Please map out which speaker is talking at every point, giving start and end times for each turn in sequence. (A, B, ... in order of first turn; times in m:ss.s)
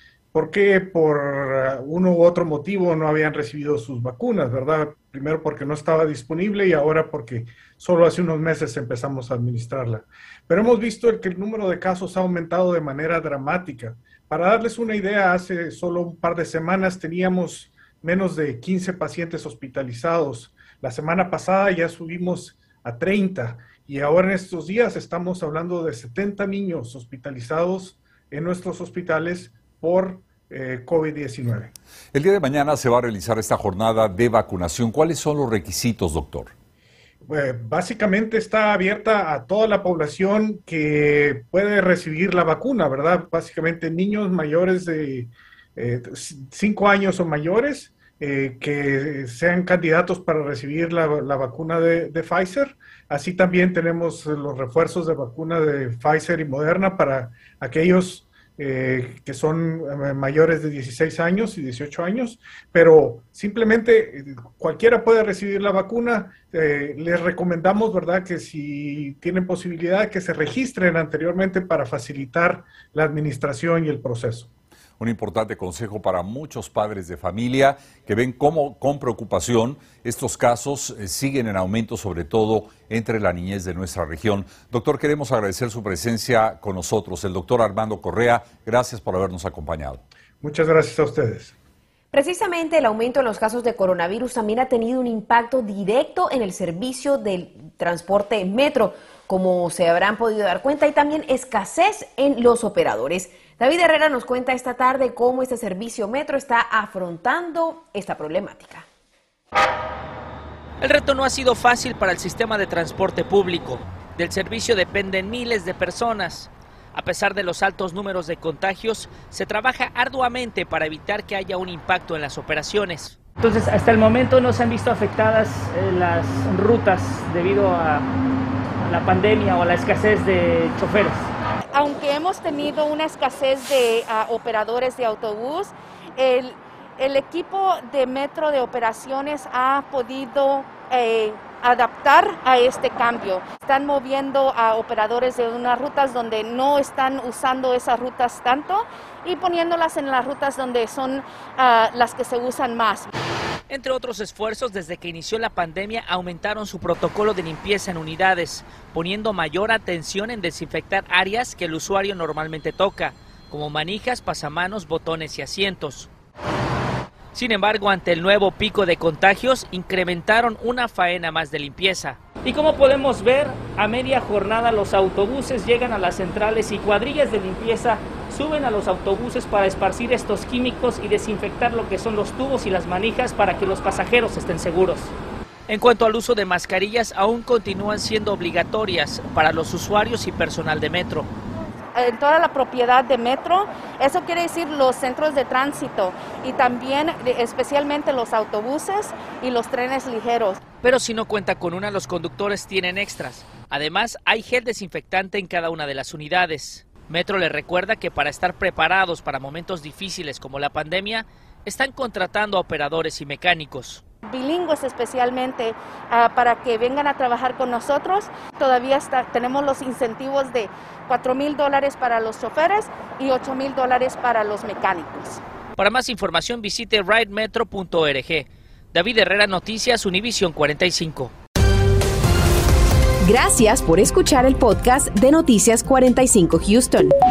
0:00.3-0:31.7 A
0:32.1-0:36.5 B
0:37.3-1:14.5 A
1:15.0-1:30.0 B
1:30.4-1:31.5 A
1:32.1-1:48.8 C
1:50.8-2:03.2 D
2:03.4-2:08.1 E
2:08.8-2:11.3 E
2:11.7-2:33.1 F
2:33.7-2:46.1 D
2:47.3-2:52.2 D
2:52.4-3:05.1 E
3:05.7-3:11.3 D
3:11.9-3:20.6 F
3:20.8-3:34.0 D
3:34.2-3:45.4 F
3:45.8-3:51.3 D
3:53.3-3:57.1 C